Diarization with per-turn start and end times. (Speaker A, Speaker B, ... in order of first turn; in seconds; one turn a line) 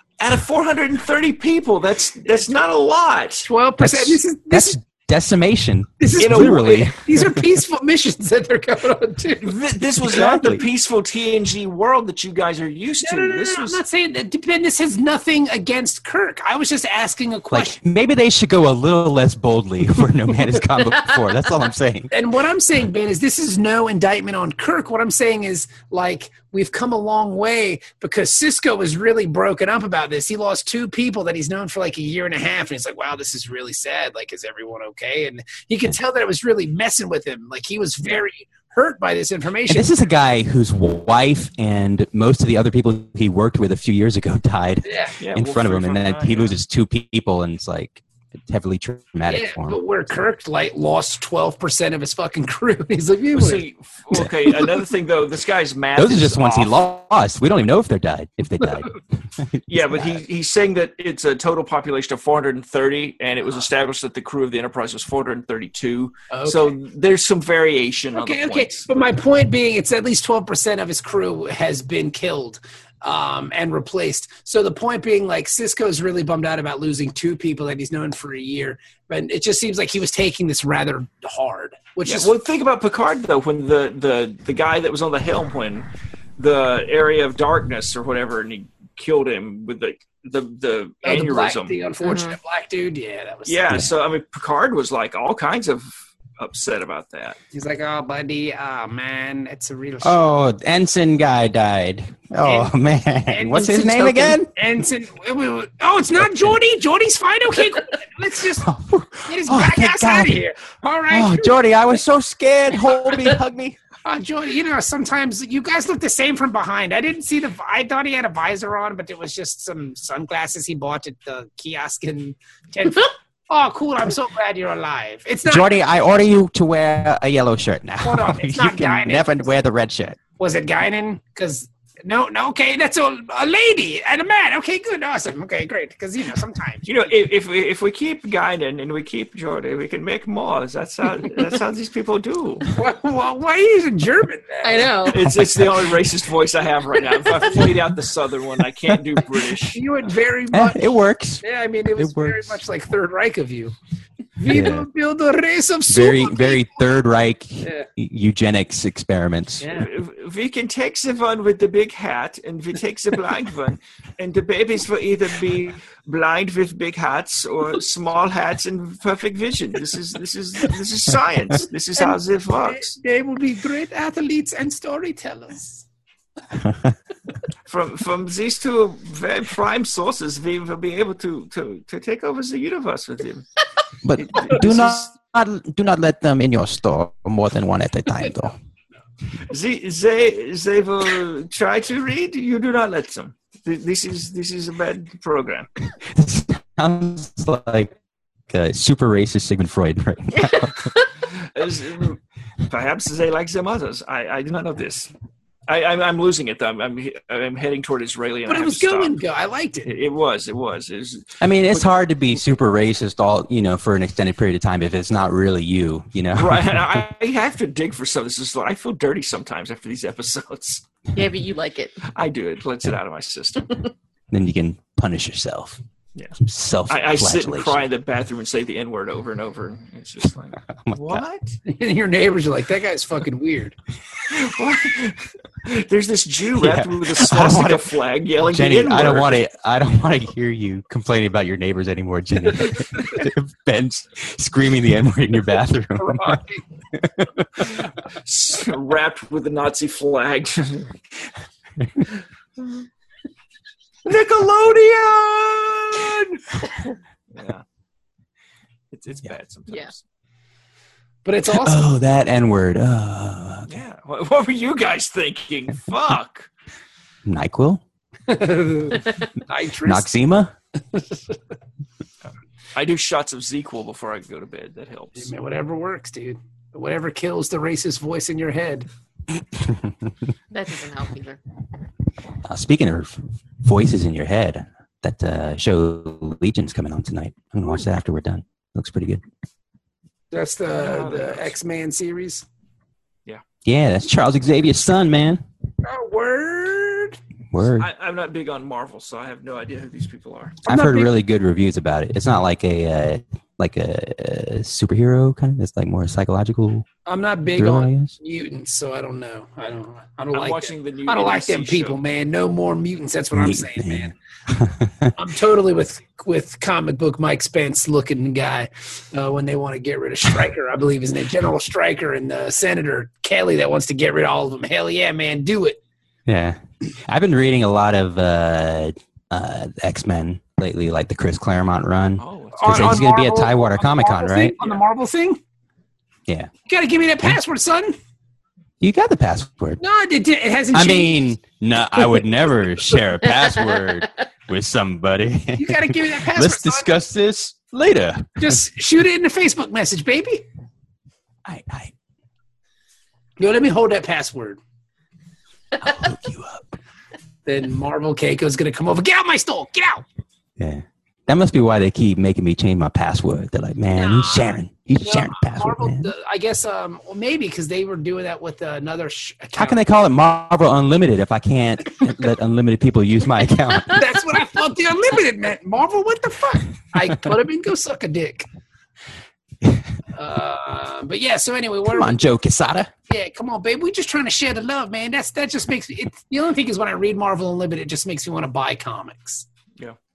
Speaker A: 0.2-3.5
Speaker B: 3.5-4.8
Speaker C: 3.8-7.3
Speaker B: 6.0-9.6
Speaker A: 6.2-6.9
Speaker A: 9.4-13.8
Speaker C: 10.0-10.7
Speaker B: 13.0-17.8
Speaker C: 17.5-22.1
Speaker B: 22.1-39.9
Speaker C: 39.7-49.8
Speaker B: 44.8-45.1
Speaker A: 45.2-46.6
Speaker B: 49.3-53.6
Speaker A: 53.3-56.7
Speaker C: 56.0-60.2
Speaker A: 59.7-68.9
Speaker B: 66.3-66.8
Speaker B: 68.2-82.3
Speaker A: 82.1-91.8
Speaker B: 91.0-93.8
Speaker D: 92.0-92.4
Speaker A: 93.5-97.4
Speaker B: 97.5-100.2
Speaker C: 100.0-104.5
Speaker B: 102.4-102.7
Speaker B: 103.3-108.7
Speaker C: 108.6-110.4
Speaker B: 109.3-111.6
Speaker C: 111.1-113.8
Speaker B: 114.0-125.7
Speaker C: 125.5-130.2
Speaker B: 128.0-129.5
Speaker B: 130.4-136.9
Speaker A: 136.9-142.7
Speaker B: 142.7-145.1
Speaker D: 144.6-145.2
Speaker A: 145.1-149.8
Speaker B: 149.7-150.8
Speaker C: 150.5-151.4
Speaker B: 151.4-153.7
Speaker C: 152.0-152.6
Speaker B: 154.4-156.7
Speaker C: 154.5-154.9
Speaker C: 155.9-159.7
Speaker B: 157.6-157.9
Speaker B: 159.6-159.9
Speaker A: 159.7-172.9
Speaker B: 172.0-175.8
Speaker A: 177.7-183.4
Speaker C: 184.0-188.6
Speaker A: 184.2-185.1
Speaker A: 189.5-195.7
Speaker C: 196.0-197.9
Speaker C: 198.5-200.9
Speaker A: 201.3-205.1
Speaker A: 205.7-209.2
Speaker B: 208.5-209.9
Speaker A: 209.8-211.8
Speaker C: 211.4-217.0
Speaker A: 216.3-220.8
Speaker D: 221.1-222.0
Speaker A: 222.1-223.9
Speaker C: 224.3-225.8
Speaker C: 226.4-227.8
Speaker A: 226.9-231.6
Speaker C: 230.8-231.2
Speaker B: 231.7-233.8
Speaker A: 234.3-239.4
Speaker C: 236.6-237.9
Speaker C: 238.5-246.4
Speaker B: 246.0-246.6
Speaker C: 246.9-247.7
Speaker A: 248.2-250.9
Speaker A: 254.1-256.5
Speaker A: 257.3-257.6
Speaker A: 258.9-260.0
Speaker B: 261.2-261.8
Speaker C: 261.5-263.7
Speaker A: 263.7-266.5
Speaker C: 267.3-267.8
Speaker B: 268.3-270.1
Speaker C: 269.9-270.5
Speaker B: 270.9-271.4
Speaker A: 272.8-275.3
Speaker B: 275.2-278.9
Speaker D: 280.5-281.4
Speaker C: 282.4-289.2
Speaker B: 290.3-292.4
Speaker A: 290.8-291.5
Speaker C: 293.6-295.4
Speaker B: 295.8-297.2
Speaker C: 297.5-297.9
Speaker A: 297.8-300.6
Speaker B: 300.7-301.1
Speaker C: 300.7-306.9
Speaker B: 307.1-314.1
Speaker C: 307.6-308.1
Speaker A: 310.3-312.0
Speaker C: 313.3-315.1
Speaker B: 315.1-325.8
Speaker C: 326.3-334.6
Speaker A: 332.2-333.0
Speaker B: 332.6-335.4
Speaker B: 336.7-338.0
Speaker C: 338.8-339.8
Speaker B: 339.8-341.3
Speaker C: 340.7-348.6
Speaker B: 345.6-346.9
Speaker B: 348.4-350.4
Speaker C: 351.5-351.9
Speaker B: 353.4-354.6
Speaker C: 355.8-356.8
Speaker B: 357.5-360.0
Speaker C: 360.6-366.1
Speaker B: 363.9-369.8
Speaker C: 369.6-374.0
Speaker B: 373.9-378.5
Speaker B: 380.1-382.2
Speaker C: 381.9-382.9
Speaker B: 383.1-389.5